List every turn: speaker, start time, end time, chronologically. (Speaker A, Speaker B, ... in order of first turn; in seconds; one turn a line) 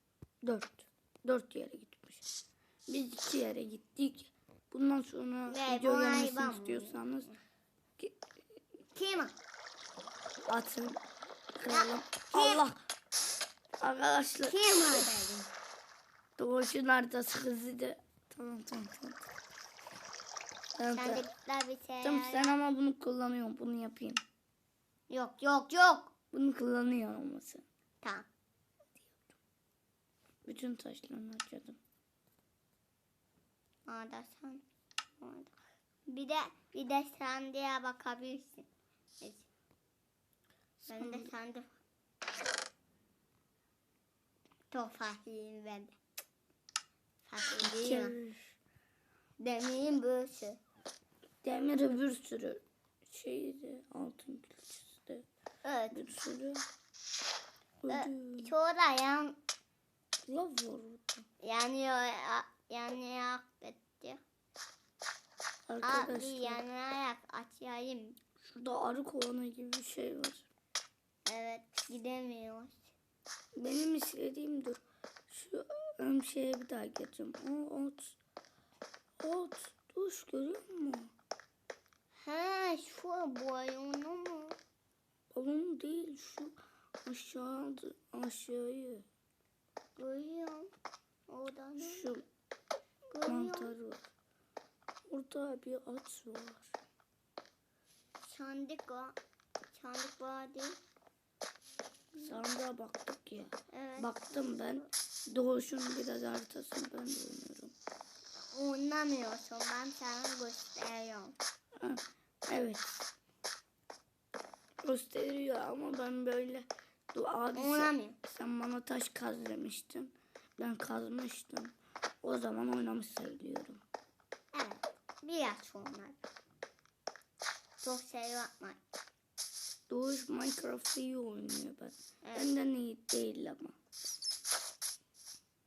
Speaker A: 0.4-2.2
Speaker A: 2.9-7.3
Speaker B: 5.5-7.0
Speaker B: 8.9-9.3
Speaker A: 10.5-11.0
Speaker A: 11.6-12.8
Speaker B: 11.7-12.6
Speaker A: 13.8-15.1
Speaker B: 14.5-15.5
Speaker A: 16.4-19.3
Speaker A: 20.8-21.3
Speaker B: 20.9-22.6
Speaker A: 22.0-24.2
Speaker B: 25.1-26.1
Speaker A: 26.3-27.6
Speaker B: 28.0-28.3
Speaker A: 30.4-31.8
Speaker B: 33.9-34.6
Speaker B: 35.2-35.5
Speaker B: 36.1-38.7
Speaker B: 39.2-39.5
Speaker A: 40.9-41.3
Speaker B: 40.9-41.8
Speaker B: 44.7-45.9
Speaker B: 47.3-48.2
Speaker A: 47.6-48.5
Speaker B: 49.4-50.6
Speaker A: 51.4-55.3
Speaker B: 55.6-56.0
Speaker A: 55.9-56.6
Speaker A: 57.8-58.5
Speaker B: 57.9-59.4
Speaker A: 60.3-61.3
Speaker B: 61.4-64.2
Speaker A: 65.7-66.6
Speaker B: 65.8-68.2
Speaker A: 68.4-70.5
Speaker B: 71.3-72.9
Speaker A: 73.6-78.2
Speaker A: 79.2-81.1
Speaker B: 82.2-84.6
Speaker A: 85.3-89.0
Speaker B: 90.0-90.7
Speaker B: 91.3-92.1
Speaker A: 91.8-92.2
Speaker B: 93.1-93.7
Speaker A: 93.3-94.0
Speaker A: 95.1-96.8
Speaker B: 98.2-99.2
Speaker B: 99.7-100.8
Speaker A: 102.2-107.7
Speaker B: 103.7-104.9
Speaker B: 108.5-111.4
Speaker A: 111.8-113.0
Speaker A: 114.8-123.8
Speaker B: 117.5-118.2
Speaker B: 124.5-126.2
Speaker B: 127.8-128.8
Speaker A: 129.9-133.8
Speaker B: 132.2-132.5